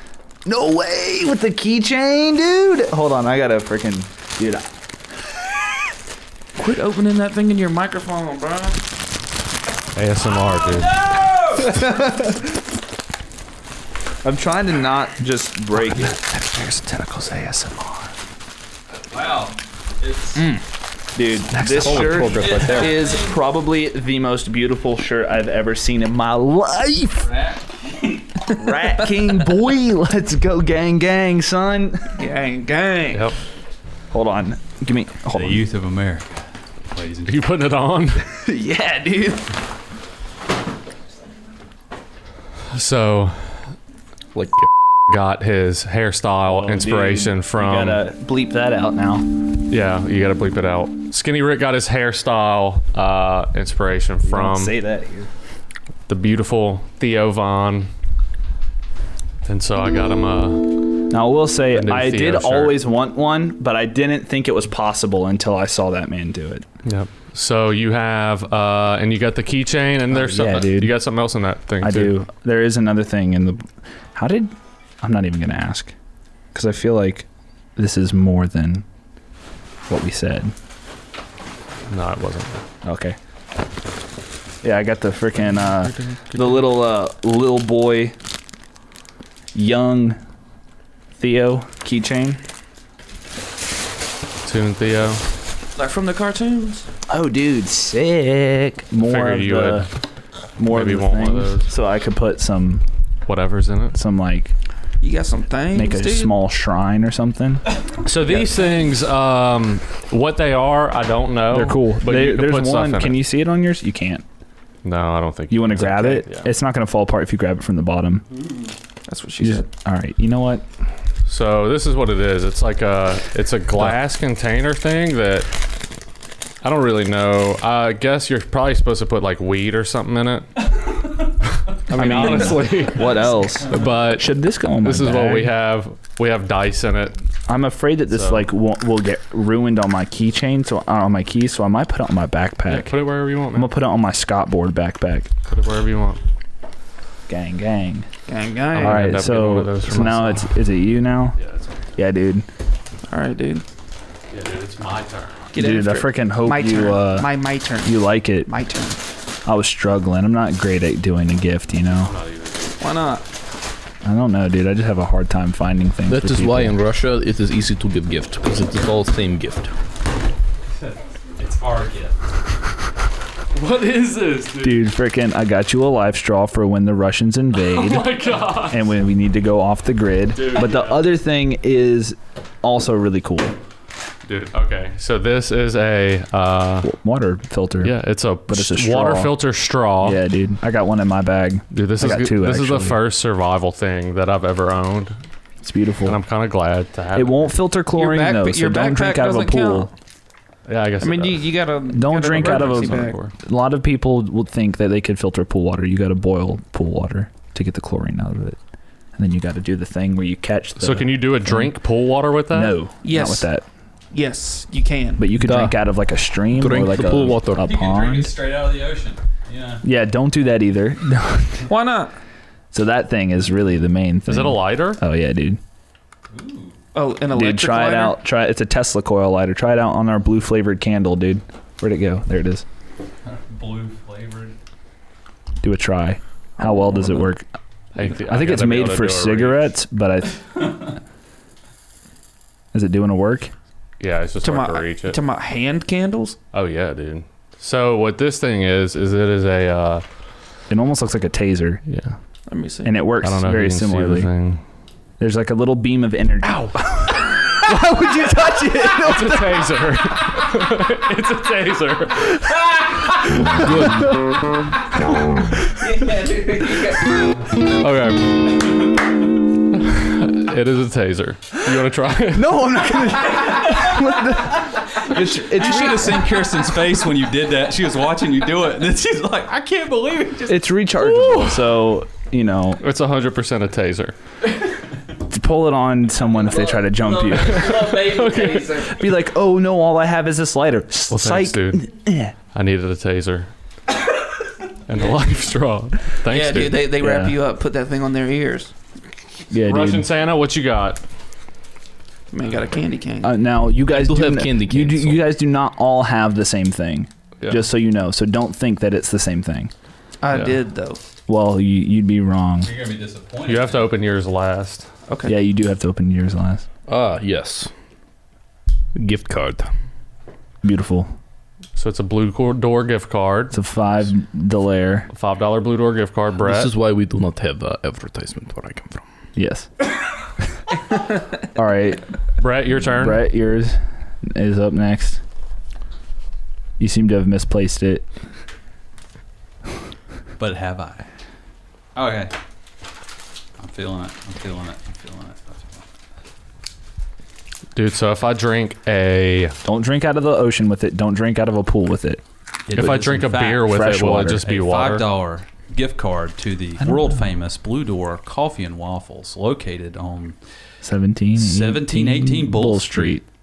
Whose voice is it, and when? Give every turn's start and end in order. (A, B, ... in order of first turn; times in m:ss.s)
0:00.4-0:04.7 A
0:06.6-0:08.8 B
0:10.0-0:11.1 C
0:10.6-0:11.8 D
0:11.6-0:12.5 A
0:14.2-0:16.2 A
0:16.2-0:17.9 C
0:19.1-0:20.4 D
0:20.4-0:20.6 A
0:21.2-0:27.3 A
0:21.5-0:22.9 C
0:22.0-0:23.4 D
0:27.2-0:28.2 D
0:28.5-0:32.2 A
0:28.5-0:29.0 B
0:32.2-0:33.3 B
0:34.1-0:35.6 A
0:35.3-0:37.5 D
0:37.2-0:38.3 C
0:38.5-0:39.3 B
0:38.7-0:39.4 A
0:42.7-0:43.7 C
0:44.4-0:44.7 E
0:45.0-0:48.0 C
0:46.4-0:49.3 A
0:49.7-0:54.8 C
0:54.2-0:55.3 A
0:56.1-0:57.9 C
0:59.4-1:01.0 C
1:01.1-1:06.7 A
1:01.7-1:02.8 C
1:06.8-1:12.2 C
1:10.1-1:11.0 A
1:11.8-1:15.9 A
1:16.5-1:18.8 A
1:19.9-1:20.5 A
1:21.9-1:22.6 C
1:22.8-1:23.2 A
1:24.6-1:28.2 A
1:25.6-1:26.6 C
1:29.5-1:30.2 A
1:31.2-1:32.4 A
1:34.4-1:35.2 C
1:35.8-1:36.9 B
1:37.1-1:39.9 A
1:39.0-1:39.9 C
1:40.6-1:42.8 A
1:40.7-1:41.7 C
1:43.3-1:44.0 C
1:43.9-1:44.5 A
1:45.0-1:46.4 B
1:45.7-1:47.7 A
1:48.0-1:53.2 C
1:51.5-1:54.2 A
1:54.8-1:56.5 C
1:55.5-1:58.2 A
1:59.1-1:59.7 B
1:59.4-2:00.6 A
2:01.3-2:05.5 C
2:06.6-2:10.6 C
2:11.7-2:17.2 C
2:11.9-2:15.5 A
2:17.5-2:23.0 A
2:18.1-2:18.4 C
2:22.7-2:23.7 C
2:23.5-2:25.3 A
2:25.4-2:26.2 C
2:27.3-2:28.1 A
2:28.3-2:29.2 B
2:28.7-2:30.6 C
2:28.8-2:31.4 A
2:31.4-2:31.7 C
2:32.0-2:32.5 A
2:33.1-2:33.6 B
2:34.3-2:35.5 C
2:35.5-2:39.0 B
2:35.6-2:37.3 A
2:37.8-2:38.5 A
2:39.4-2:42.1 A
2:42.0-2:42.8 C
2:42.8-2:43.2 B
2:44.0-2:46.8 A
2:46.1-2:49.7 E
2:50.8-2:52.2 D
2:53.5-2:54.8 C
2:54.6-3:03.6 A
2:57.6-2:58.8 C
3:00.3-3:01.1 C
3:04.3-3:06.9 C
3:06.8-3:08.0 A
3:07.8-3:10.2 C
3:08.5-3:09.4 A
3:10.0-3:13.0 A
3:11.7-3:15.2 C
3:15.6-3:16.2 A
3:16.0-3:17.4 C
3:17.1-3:19.9 A
3:17.9-3:19.9 B
3:20.7-3:21.6 C
3:21.0-3:23.2 B
3:21.9-3:28.6 A
3:22.3-3:23.3 C
3:29.2-3:31.8 A
3:30.8-3:32.8 C
3:32.5-3:33.6 A
3:33.0-3:33.5 B
3:34.1-3:35.2 B
3:35.2-3:38.3 A
3:35.4-3:35.8 E
3:36.5-3:37.7 E
3:37.5-3:39.8 D
3:39.8-3:41.7 A
3:41.7-3:42.1 B
3:42.7-3:45.6 A
3:44.3-3:45.0 C
3:46.3-3:46.8 D
3:46.9-3:48.2 B
3:47.3-3:52.6 A
3:53.2-3:54.6 D
3:55.6-3:57.5 A
3:58.0-3:59.7 C
3:58.1-4:00.7 A
4:02.7-4:03.5 A
4:04.0-4:05.2 C
4:04.4-4:06.4 B
4:06.5-4:10.0 C
4:10.7-4:11.8 A
4:11.9-4:12.2 C
4:12.5-4:13.0 B
4:12.8-4:14.3 A
4:13.2-4:14.6 C
4:15.2-4:19.7 A
4:18.9-4:24.1 C
4:23.6-4:24.1 E
4:25.8-4:27.2 B
4:27.6-4:29.0 C
4:29.7-4:32.8 C
4:32.3-4:36.4 A
4:35.2-4:40.7 D
4:40.5-4:42.8 A
4:41.0-4:41.9 C
4:42.8-4:44.2 C
4:45.3-4:47.9 A
4:46.7-4:49.0 B
4:47.5-4:48.9 C
4:48.8-4:52.4 A
4:51.1-4:51.9 C
4:52.5-4:53.5 C
4:54.9-4:56.9 C
4:56.3-4:58.7 B
4:57.0-4:57.4 A
4:59.5-5:00.1 A
4:59.6-5:01.0 C
5:02.3-5:03.3 B
5:03.2-5:09.7 A
5:03.9-5:05.2 E
5:10.2-5:11.0 B
5:11.3-5:12.7 A
5:12.6-5:13.9 D
5:13.4-5:14.9 C
5:15.1-5:15.3 B
5:15.2-5:16.6 A
5:16.9-5:17.7 E
5:19.0-5:19.7 E
5:20.6-5:21.1 A
5:21.8-5:23.6 C
5:23.5-5:25.1 A
5:25.1-5:26.7 C
5:26.4-5:29.0 E
5:29.4-5:29.7 A
5:31.4-5:32.1 A
5:32.4-5:33.2 C
5:32.8-5:35.2 A
5:36.8-5:38.1 A
5:40.4-5:41.1 D
5:42.0-5:42.3 D
5:43.6-5:45.9 D
5:47.8-5:49.6 C
5:49.6-5:52.2 A
5:52.7-6:00.4 D
5:52.7-5:55.1 C
5:53.7-5:54.4 A
6:00.8-6:03.2 A
6:01.4-6:03.2 D